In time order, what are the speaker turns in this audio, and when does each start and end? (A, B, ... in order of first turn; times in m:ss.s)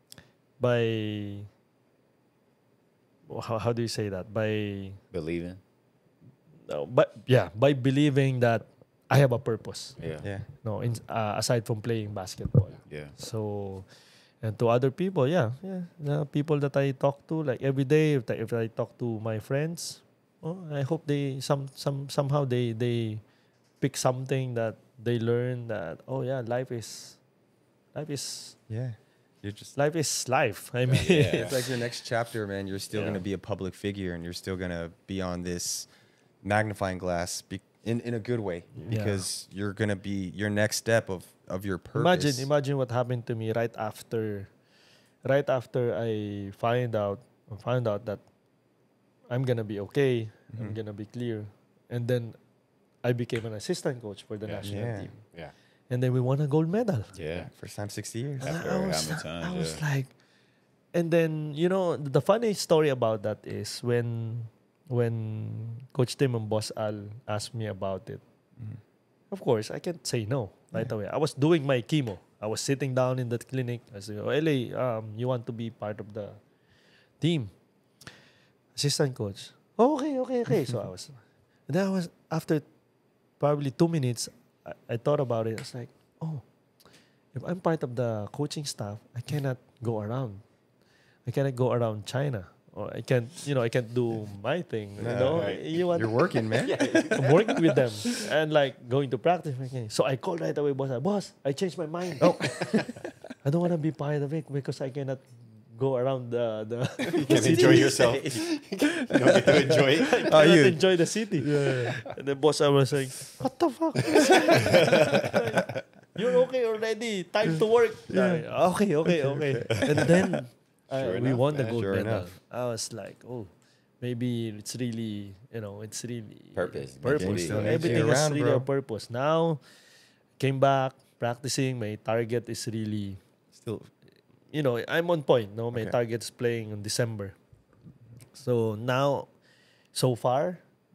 0:00.6-0:01.5 A
0:03.3-0:05.0 A
0:05.1-0:05.6 B
0:06.7-0:10.0 A
0:10.0-0:10.3 B
0:10.6-0:13.9 A
0:12.9-0:13.2 B
0:14.4-0:23.2 A
0:23.8-0:27.2 A
0:27.9-0:28.6 A
0:28.7-0:29.8 C
0:29.8-0:31.6 A
0:30.9-0:31.6 D
0:30.9-0:31.5 B
0:31.4-0:35.9 C
0:32.9-0:33.2 A
0:36.4-0:42.5 C
0:38.8-0:39.3 A
0:42.0-0:44.5 A
0:45.2-0:48.2 A
0:49.3-0:52.4 A
0:53.0-0:55.3 A
0:54.4-0:55.5 D
0:54.6-0:55.1 C
0:55.9-0:57.2 A
0:57.1-0:57.5 B
0:57.3-0:58.5 C
0:58.4-0:59.8 B
0:58.4-1:00.1 A
1:00.9-1:08.2 A
1:09.3-1:16.4 A
1:17.2-1:17.5 A
1:18.8-1:22.6 A
1:20.5-1:20.8 C
1:23.4-1:26.4 A
1:27.3-1:30.4 A
1:31.3-1:36.2 A
1:35.0-1:37.2 C
1:35.3-1:38.2 D
1:36.9-1:42.8 A
1:42.2-1:43.1 C
1:43.4-1:48.0 A
1:47.2-1:48.4 C
1:47.2-1:50.3 D
1:49.3-2:09.6 A
1:50.2-1:52.0 C
1:54.2-1:55.3 C
1:57.5-1:58.5 C
1:59.0-2:00.4 C
2:00.9-2:01.8 D
2:01.6-2:02.3 C
2:06.6-2:08.1 B
2:07.1-2:08.7 C
2:10.4-2:13.2 A
2:13.5-2:13.9 C
2:14.5-2:17.4 A
2:18.4-2:19.3 A
2:19.9-2:20.6 A